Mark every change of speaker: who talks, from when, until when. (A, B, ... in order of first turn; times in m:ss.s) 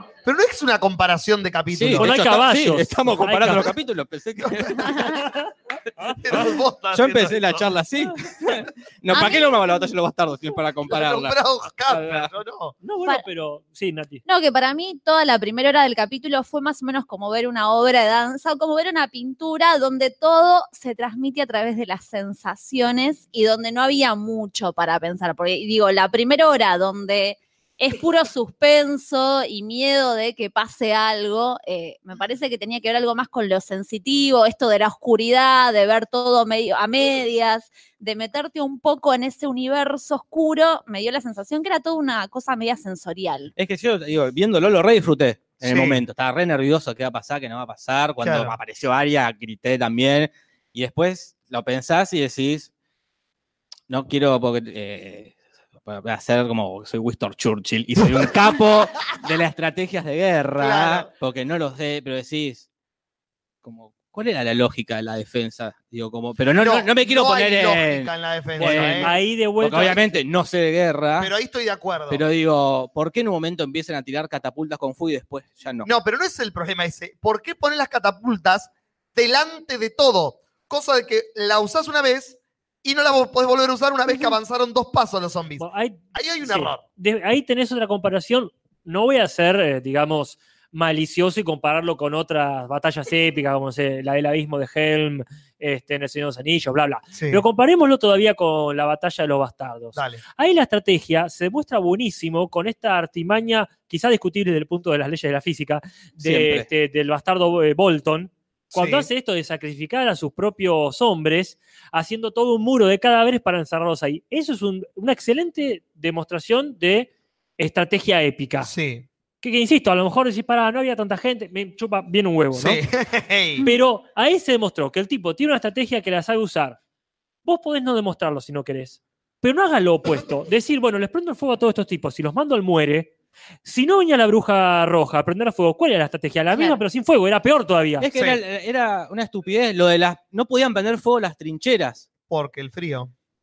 0:00.2-0:02.1 A
0:01.7-0:05.2 B
0:01.9-0:03.7 C
0:04.4-0:05.0 A
0:06.1-0:07.7 A
0:06.9-0:12.3 B
0:09.1-0:09.6 D
0:10.8-0:12.7 A
0:12.8-0:14.2 C
0:14.2-0:43.5 D
0:43.6-0:52.7 B
0:45.6-0:46.0 A
0:48.2-0:48.6 A
0:53.9-1:02.6 B
1:00.6-1:01.1 A
1:03.6-1:11.3 B
1:06.6-1:09.1 A
1:08.6-1:10.2 C
1:11.2-1:12.2 A
1:12.1-1:15.9 B
1:15.8-1:26.8 A
1:25.6-1:58.7 C
1:37.1-1:37.4 A
1:39.9-1:40.2 A
1:46.2-1:46.6 B
1:48.7-1:49.1 A
1:58.6-1:59.0 A
1:59.4-2:02.8 C
2:02.5-2:03.6 A
2:03.6-2:06.8 C
2:07.4-2:13.1 C
2:13.6-2:18.0 C
2:18.0-2:22.0 B
2:22.3-2:23.1 A